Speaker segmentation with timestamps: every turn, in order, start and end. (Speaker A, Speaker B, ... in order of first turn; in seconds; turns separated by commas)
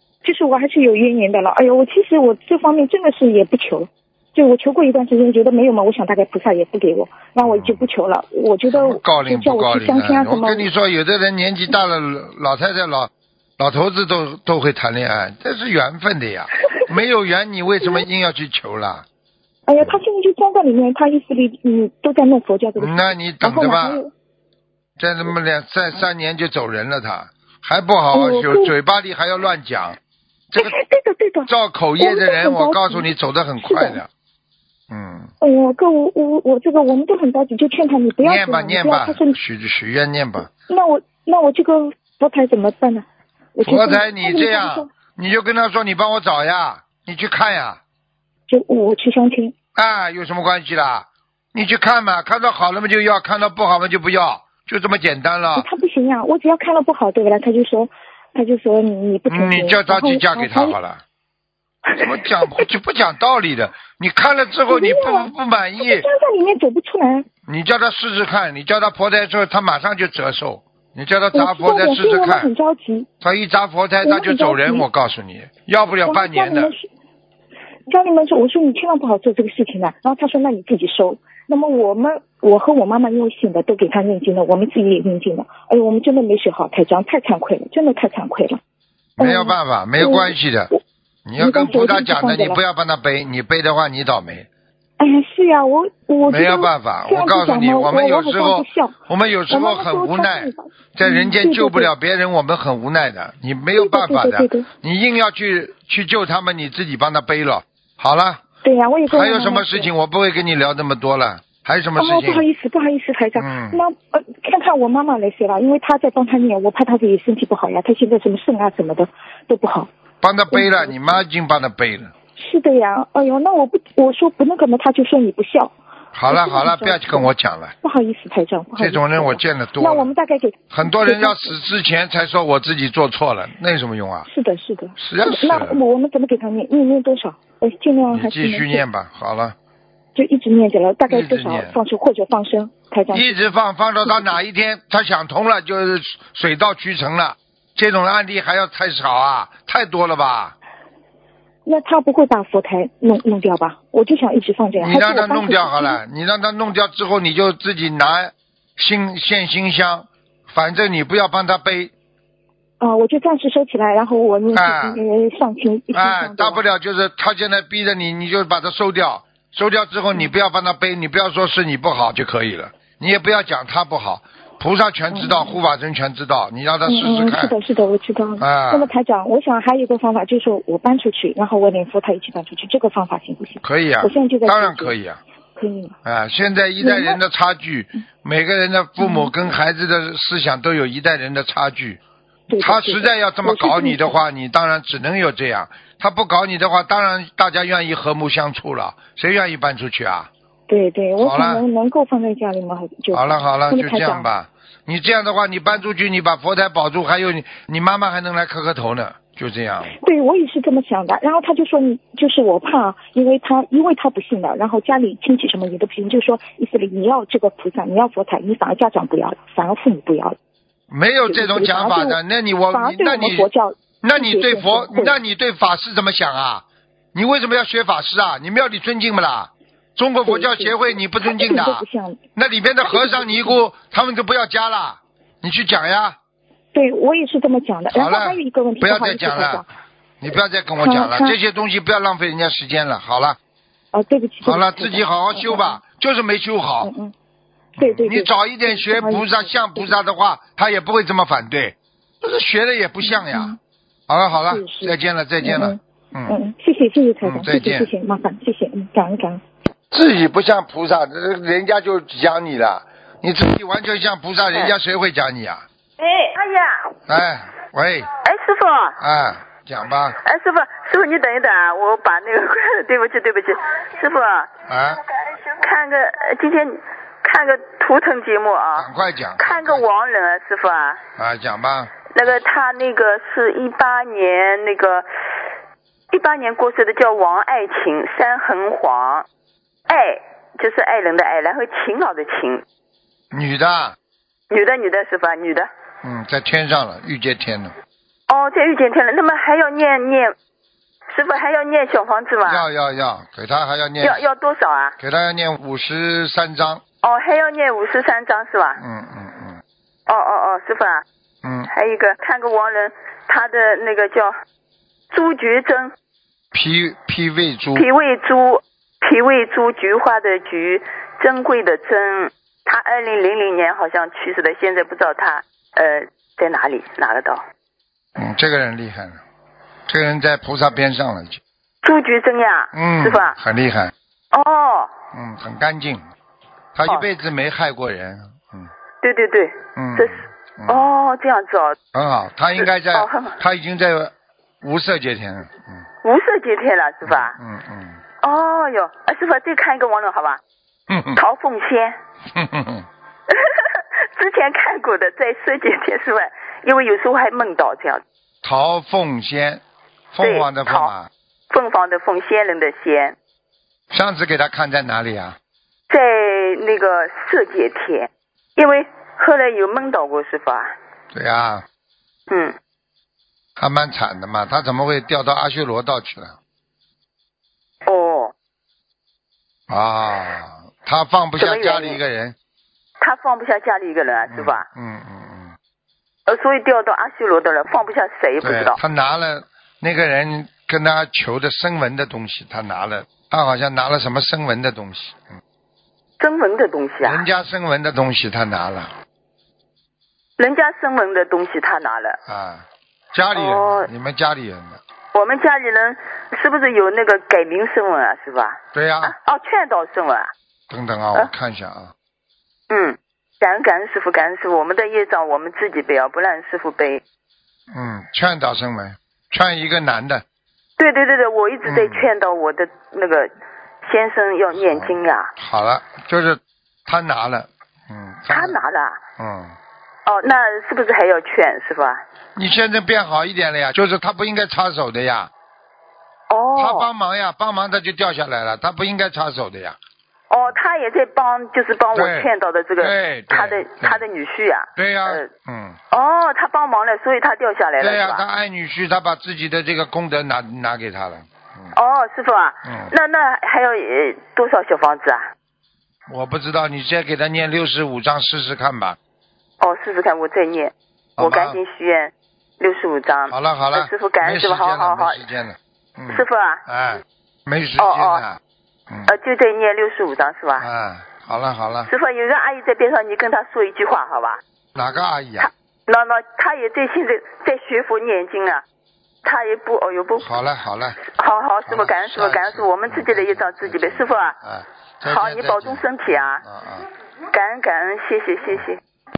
Speaker A: 0.2-10.7, Speaker B: 7.4-7.8, Speaker B: 8.7-19.1, Speaker A: 19.7-24.1, Speaker B: 22.8-24.0, Speaker B: 25.0-30.0, Speaker A: 28.1-28.7, Speaker A: 30.6-33.1, Speaker B: 31.5-34.1, Speaker A: 33.6-34.0, Speaker B: 34.9-35.3, Speaker A: 35.4-39.4, Speaker B: 38.2-40.5, Speaker A: 40.7-44.9, Speaker B: 43.6-47.8, Speaker A: 48.5-49.5, Speaker B: 49.7-55.7, Speaker A: 55.5-60.8, Speaker B: 59.3-61.0, Speaker A: 61.9-62.5, Speaker B: 62.0-66.1, Speaker A: 64.7-67.3, Speaker B: 67.5-72.5, Speaker A: 71.3-73.1, Speaker B: 73.2-76.7, Speaker A: 74.0-74.8, Speaker A: 76.0-76.9, Speaker A: 77.9-88.6, Speaker B: 89.2-90.7, Speaker A: 89.2-90.8, Speaker B: 91.2-94.5, Speaker A: 91.4-92.6, Speaker A: 95.0-99.0, Speaker B: 96.3-108.4, Speaker A: 99.5-101.9, Speaker A: 103.7-104.7, Speaker A: 108.6-109.9, Speaker B: 109.1-112.4, Speaker A: 112.0-119.9, Speaker B: 113.3-113.8, Speaker B: 120.2-122.1, Speaker A: 120.5-121.2, Speaker A: 122.4-125.7, Speaker B: 126.1-127.7, Speaker A: 126.3-131.6, Speaker B: 128.8-130.1, Speaker B: 130.7-134.3, Speaker A: 134.2-138.8, Speaker B: 135.0-135.8, Speaker B: 138.1-139.6, Speaker A: 140.1-143.3, Speaker B: 141.1-141.8, Speaker B: 143.1-150.6, Speaker A: 144.0-144.3, Speaker A: 151.7-156.0, Speaker B: 154.8-161.9, Speaker A: 162.8-166.6, Speaker B: 164.5-165.0, Speaker B: 165.9-177.5, Speaker A: 175.1-175.5, Speaker A: 176.8-184.9, Speaker B: 178.4-178.9, Speaker B: 183.6-185.2, Speaker A: 185.6-185.9, Speaker B: 186.0-192.0, Speaker A: 186.8-187.2, Speaker A: 189.0-189.3, Speaker A: 192.5-194.2, Speaker B: 192.6-200.3, Speaker A: 200.7-204.2, Speaker B: 201.2-201.6, Speaker B: 203.1-209.9, Speaker A: 210.0-220.4, Speaker B: 220.9-223.5, Speaker A: 221.3-222.2, Speaker A: 222.7-225.1, Speaker B: 224.0-236.2, Speaker A: 230.2-232.2, Speaker A: 232.8-233.6, Speaker A: 236.7-239.7, Speaker B: 237.9-239.6, Speaker B: 240.2-243.4, Speaker A: 240.8-241.4, Speaker A: 243.9-245.7, Speaker B: 244.4-246.9, Speaker A: 246.8-247.1, Speaker B: 247.8-253.6, Speaker A: 247.8-249.9, Speaker A: 253.0-253.6, Speaker B: 254.1-256.4, Speaker A: 254.4-259.4, Speaker B: 257.2-257.9, Speaker B: 259.9-265.6, Speaker C: 266.0-266.9, Speaker B: 267.1-268.1, Speaker C: 268.2-269.0, Speaker B: 269.0-270.2, Speaker C: 270.2-274.5, Speaker B: 274.7-275.0, Speaker C: 275.3-278.9, Speaker B: 278.8-279.9, Speaker C: 279.4-281.0, Speaker B: 281.2-281.9, Speaker C: 282.1-285.1, Speaker C: 286.1-289.2, Speaker C: 289.9-292.6, Speaker B: 293.3-293.9, Speaker C: 294.5-295.7, Speaker B: 296.0-297.7, Speaker C: 298.3-300.3, Speaker C: 301.1-302.6, Speaker B: 302.4-304.2, Speaker C: 304.0-304.9, Speaker B: 305.0-306.8, Speaker C: 307.0-308.8, Speaker B: 308.8-309.6, Speaker C: 310.1-311.0, Speaker B: 311.4-311.7, Speaker C: 311.6-314.3, Speaker C: 315.1-315.9, Speaker B: 316.5-317.9, Speaker C: 317.7-327.4, Speaker B: 328.1-329.2, Speaker B: 329.9-331.4, Speaker C: 331.8-333.3, Speaker B: 332.7-333.9, Speaker C: 334.3-334.9, Speaker B: 335.1-336.0, Speaker B: 336.7-338.7, Speaker C: 339.0-341.8, Speaker B: 339.8-340.9, Speaker B: 341.9-345.8, Speaker C: 342.9-343.4, Speaker C: 346.0-347.4, Speaker B: 347.0-348.0, Speaker C: 348.2-350.4, Speaker B: 350.9-351.2, Speaker C: 351.1-351.9, Speaker B: 352.3-352.9, Speaker C: 353.3-358.0, Speaker B: 358.4-359.6, Speaker B: 360.1-361.1, Speaker C: 360.2-360.9, Speaker C: 361.5-363.1, Speaker B: 363.9-365.4, Speaker C: 365.9-370.7, Speaker B: 371.1-371.6, Speaker C: 372.3-372.6, Speaker B: 373.6-376.4, Speaker C: 377.8-378.3, Speaker B: 379.7-382.4, Speaker C: 381.4-382.0, Speaker C: 383.0-384.6, Speaker B: 384.3-385.6, Speaker C: 386.3-388.8, Speaker B: 388.4-395.2, Speaker C: 396.2-397.2, Speaker B: 397.0-398.9, Speaker C: 400.4-402.2, Speaker B: 402.3-404.8, Speaker C: 403.3-403.9, Speaker C: 405.1-410.3, Speaker B: 408.7-409.1, Speaker B: 410.7-411.9, Speaker C: 412.7-417.0, Speaker B: 417.7-420.2, Speaker C: 420.8-423.3, Speaker B: 421.6-422.1, Speaker C: 423.8-425.3, Speaker B: 424.5-428.6, Speaker C: 428.3-429.0, Speaker B: 429.2-429.6, Speaker C: 430.1-432.0, Speaker B: 432.4-435.3, Speaker C: 436.3-436.9, Speaker B: 436.6-439.8, Speaker C: 440.3-445.3, Speaker B: 441.9-444.0, Speaker B: 444.8-445.8, Speaker C: 445.9-448.2, Speaker B: 447.8-451.7, Speaker C: 451.7-455.2, Speaker B: 452.6-452.9, Speaker B: 456.1-459.0, Speaker C: 459.6-465.2, Speaker B: 461.2-461.6, Speaker B: 463.3-469.1, Speaker C: 466.1-466.6, Speaker C: 467.8-468.2, Speaker C: 469.1-470.6, Speaker B: 470.6-471.9, Speaker C: 471.9-474.4, Speaker B: 474.7-475.5, Speaker C: 475.4-478.6, Speaker C: 479.2-480.2, Speaker B: 480.2-481.0, Speaker C: 481.0-484.3, Speaker B: 481.6-486.9, Speaker C: 485.0-486.4, Speaker C: 487.3-488.8